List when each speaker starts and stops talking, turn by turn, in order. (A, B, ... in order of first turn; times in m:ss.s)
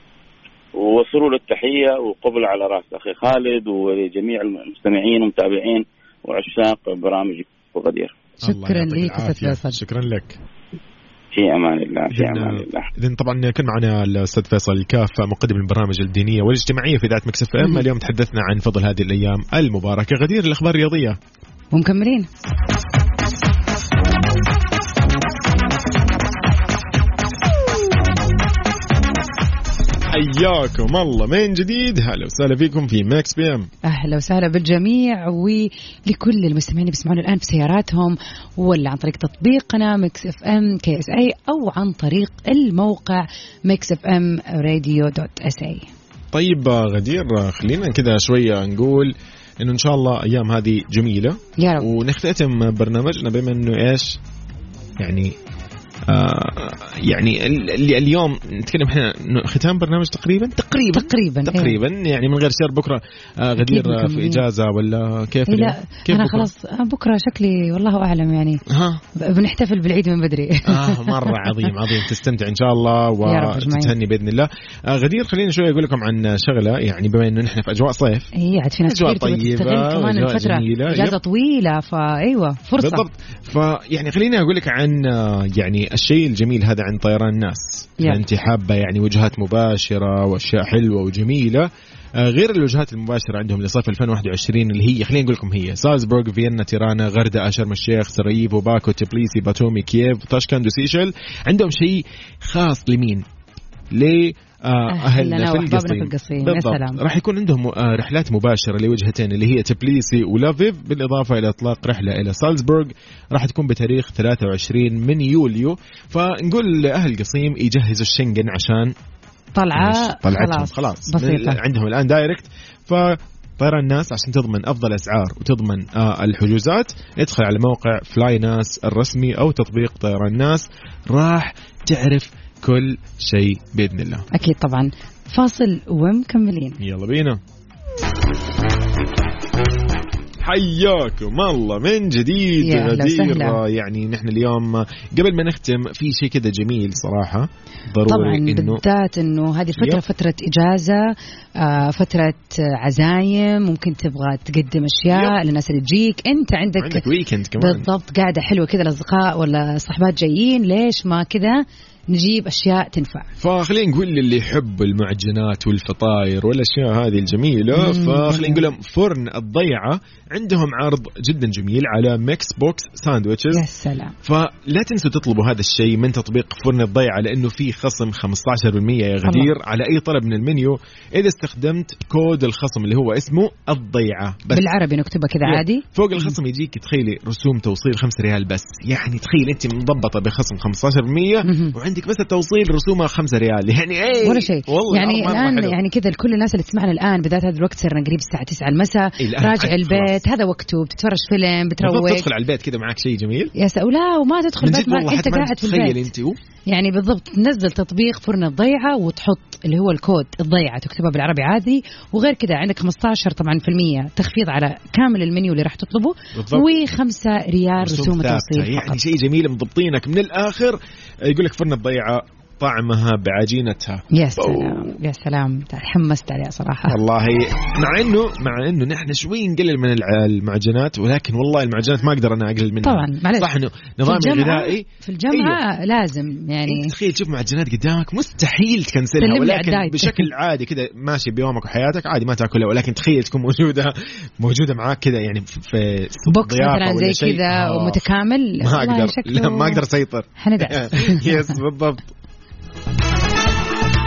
0:00.7-0:08.1 A
0:08.4-0:10.4 B
0:08.4-0:09.8 C
0:11.3-0:12.9 A
0:12.1-0:21.2 B
0:21.7-0:22.3 C
0:30.1-0:33.7 B
0:33.8-0:45.9 C
0:46.3-0:54.2 B
0:51.6-0:51.9 C
0:55.0-0:55.3 B
0:56.1-1:06.5 B
1:00.9-1:01.8 C
1:03.6-1:04.4 C
1:05.5-1:08.6 C
1:08.7-1:09.0 B
1:09.2-1:11.7 C
1:10.6-1:18.3 B
1:13.2-1:13.9 C
1:18.3-1:23.0 C
1:18.8-1:21.2 B
1:22.8-1:43.2 B
1:43.9-1:58.9 B
1:44.9-1:47.0 C
1:59.6-2:01.6 C
1:59.7-2:14.2 B
2:14.3-2:16.8 C
2:16.8-2:17.4 B
2:20.4-2:28.8 B
2:22.6-2:23.6 C
2:28.0-2:37.0 C
2:29.8-2:30.0 B
2:35.1-2:35.4 B
2:36.8-2:37.9 B
2:37.6-2:43.3 C
2:43.4-2:53.6 B
2:47.7-2:48.7 C
2:53.5-2:54.1 C
2:54.2-3:04.7 B
2:59.2-2:59.5 C
3:04.5-3:06.3 C
3:05.4-3:15.8 B
3:11.4-3:11.7 C
3:14.2-3:22.3 C
3:19.2-3:20.2 B
3:21.8-3:23.5 B
3:23.6-3:26.0 C
3:24.6-3:26.4 B
3:26.7-3:39.0 C
3:36.3-3:36.7 B
3:37.8-3:44.9 B
3:44.1-3:47.0 C
3:46.9-3:55.6 B
3:52.8-3:53.5 C
3:54.0-3:56.9 C
3:56.6-4:08.0 B
3:59.2-4:00.3 C
4:06.2-4:09.8 C
4:08.6-4:12.1 B
4:10.4-4:11.6 C